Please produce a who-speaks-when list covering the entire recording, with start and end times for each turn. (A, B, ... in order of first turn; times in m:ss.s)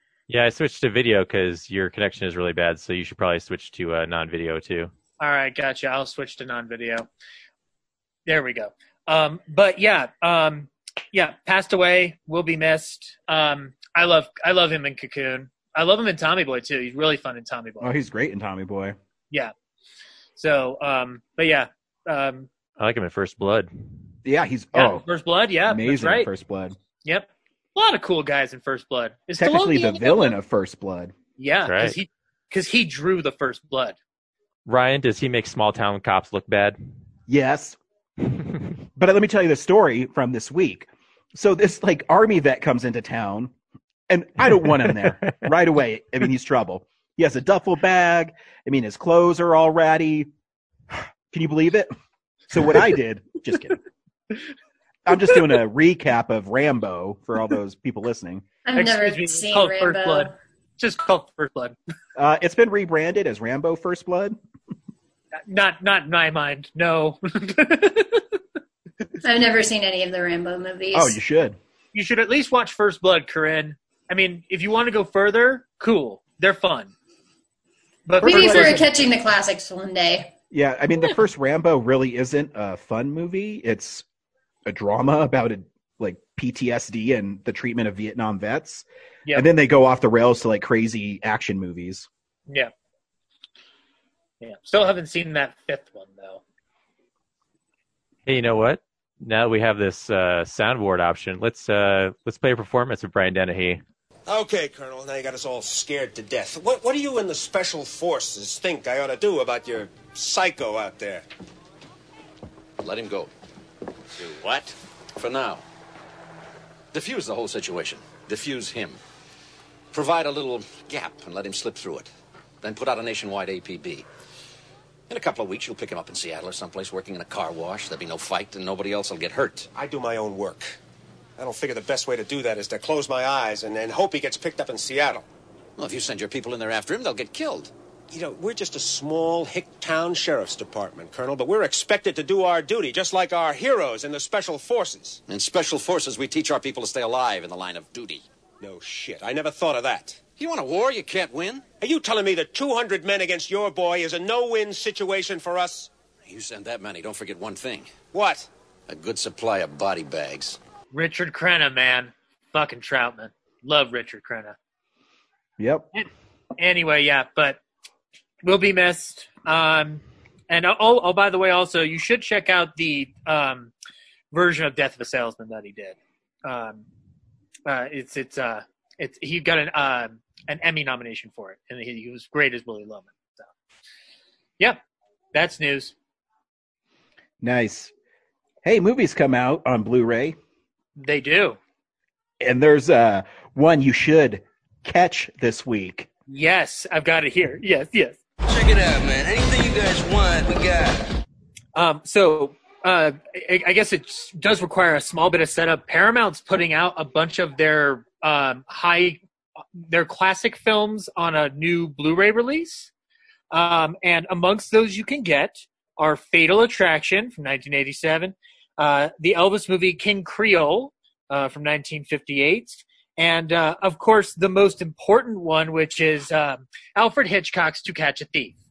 0:00.3-0:04.9 A
0:05.2-0:07.1 B
0:08.2-0:17.9 B
0:17.8-0:19.0 C
0:20.4-0:22.5 B
0:22.8-0:23.7 A
0:24.2-0:25.0 C
0:24.7-0:26.3 B
0:25.7-0:26.8 C
0:27.0-0:30.3 B
0:29.4-0:31.1 C
0:31.4-0:34.0 B
0:31.6-0:32.0 A
0:34.6-0:36.8 A
0:37.3-0:37.8 C
0:39.0-0:43.5 C
0:44.1-0:50.3 C
0:50.9-0:51.9 C
0:52.5-0:53.8 C
0:55.0-0:58.5 C
0:58.6-1:00.3 D
0:58.7-1:01.8 B
1:02.2-1:04.4 C
1:05.4-1:08.2 B
1:09.2-1:11.2 D
1:10.9-1:11.6 C
1:11.9-1:16.9 B
1:18.0-1:18.9 B
1:18.2-1:20.3 D
1:18.2-1:18.8 C
1:20.5-1:24.0 C
1:24.6-1:32.1 C
1:34.4-1:36.4 B
1:38.2-1:43.8 A
1:44.3-1:51.2 E
1:52.8-1:53.3 F
1:54.2-1:55.6 F
1:56.9-1:59.0 F
1:59.9-2:02.1 F
2:02.6-2:04.0 F
2:05.1-2:09.7 F
2:09.7-2:10.8 E
2:11.4-2:15.2 E
2:15.8-2:17.7 F
2:18.1-2:25.2 E
2:25.3-2:28.2 F
2:28.6-2:30.3 E
2:30.3-2:31.6 F
2:31.8-2:35.9 E
2:36.2-2:37.9 F
2:38.1-2:38.5 E
2:38.9-2:40.6 F
2:40.9-2:44.6 B
2:45.6-2:45.9 C
2:46.6-2:47.6 B
2:48.4-2:53.7 B
2:54.3-2:56.8 B
2:57.6-3:03.5 B
3:05.3-3:05.9 B
3:07.4-3:07.9 C
3:08.6-3:10.4 C
3:11.0-3:11.6 B
3:12.4-3:16.1 C
3:16.3-3:18.2 B
3:18.4-3:21.0 G
3:21.7-3:29.2 B
3:29.8-3:32.9 B
3:33.5-3:48.6 B